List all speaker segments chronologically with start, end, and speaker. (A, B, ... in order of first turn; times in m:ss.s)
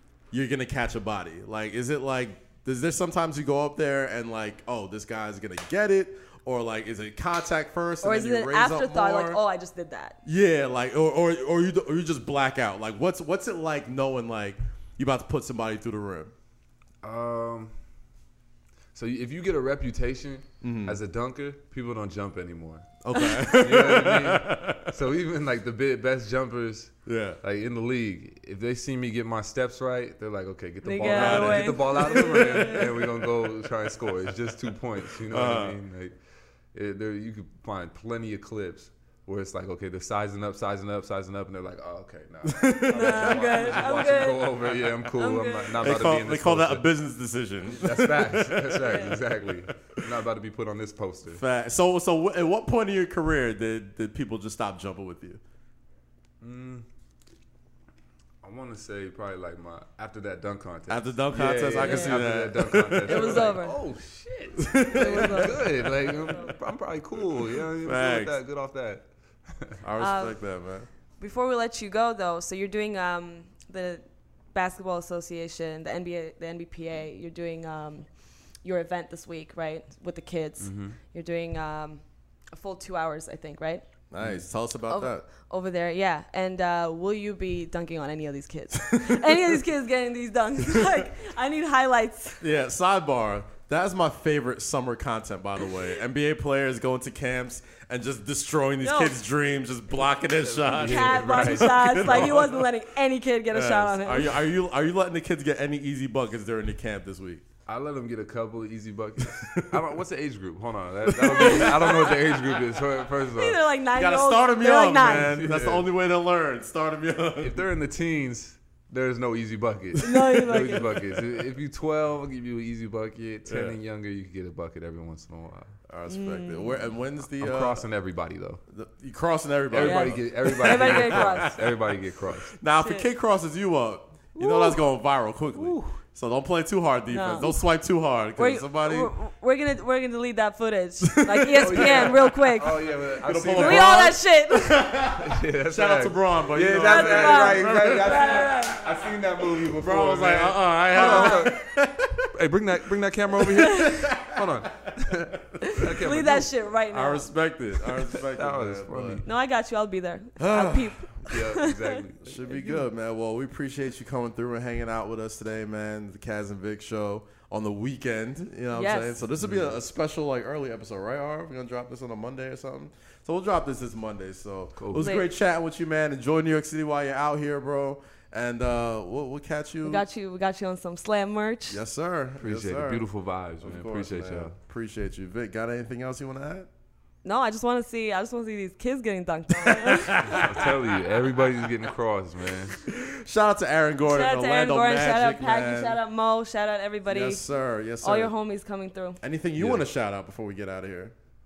0:00.3-0:09.4 A
0:08.0-0:10.2 B
0:10.2-0:16.3 A
0:17.0-0:17.8 C
0:18.9-0:36.2 C
0:20.6-0:21.0 A
0:23.0-0:24.9 A
0:27.1-0:27.4 A
0:30.8-0:32.9 B
0:31.1-0:35.8 A
0:36.7-0:46.9 C
0:42.4-0:43.7 A
0:42.9-0:45.9 B
0:45.8-0:50.0 A
0:47.7-0:51.4 C
0:51.3-0:55.4 A
0:56.4-0:56.9 C
0:58.4-1:09.8 C
1:00.9-1:03.6 A
1:01.8-1:02.2 B
1:03.0-1:03.8 B
1:04.6-1:05.6 A
1:04.9-1:06.5 B
1:07.6-1:08.4 A
1:09.8-1:10.9 A
1:10.0-1:10.4 B
1:11.2-1:18.1 B
1:18.6-1:23.9 B
1:20.6-1:21.0 C
1:24.1-1:25.3 A
1:24.2-1:24.5 C
1:24.9-1:32.4 B
1:28.8-1:29.6 A
1:32.4-1:42.7 A
1:38.8-1:39.1 B
1:40.3-1:42.7 C
1:40.7-1:44.4 B
1:43.5-1:47.4 A
1:47.7-1:53.6 C
1:49.2-1:49.8 A
1:51.0-1:52.1 A
1:51.2-1:55.4 B
1:54.0-1:57.7 A
1:55.1-1:55.9 C
1:57.4-2:05.8 C
2:00.0-2:01.1 B
2:03.5-2:03.8 A
2:05.9-2:07.8 A
2:06.1-2:06.9 B
2:07.3-2:08.6 C
2:08.7-2:11.6 A
2:09.7-2:12.5 C
2:09.8-2:11.6 B
2:12.6-2:19.1 A
2:12.8-2:13.1 B
2:14.4-2:14.8 B
2:15.6-2:16.0 C
2:17.1-2:17.6 B
2:18.4-2:24.9 B
2:21.0-2:22.5 A
2:21.6-2:24.2 C
2:23.2-2:28.8 A
2:25.1-2:31.6 C
2:26.8-2:28.9 B
2:29.7-2:32.3 A
2:30.9-2:31.6 B
2:32.3-2:36.5 C
2:33.4-2:35.0 A
2:33.5-2:34.0 B
2:35.6-2:37.3 B
2:36.9-2:39.2 A
2:38.0-2:39.3 C
2:39.2-2:42.0 B
2:40.4-2:41.0 A
2:41.2-2:42.8 C
2:42.2-3:00.0 A
2:48.7-2:49.2 B
2:49.4-2:49.8 C
2:54.8-2:55.1 C
2:55.0-2:55.3 B
2:59.8-3:01.8 B
3:01.7-3:03.0 A
3:02.4-3:04.5 C
3:03.6-3:06.7 A
3:07.2-3:10.7 B
3:09.6-3:10.7 A
3:10.3-3:12.8 C
3:12.8-3:16.0 A
3:14.0-3:17.4 B
3:17.1-3:18.3 A
3:18.0-3:19.2 B
3:19.2-3:21.2 A
3:19.6-3:19.9 C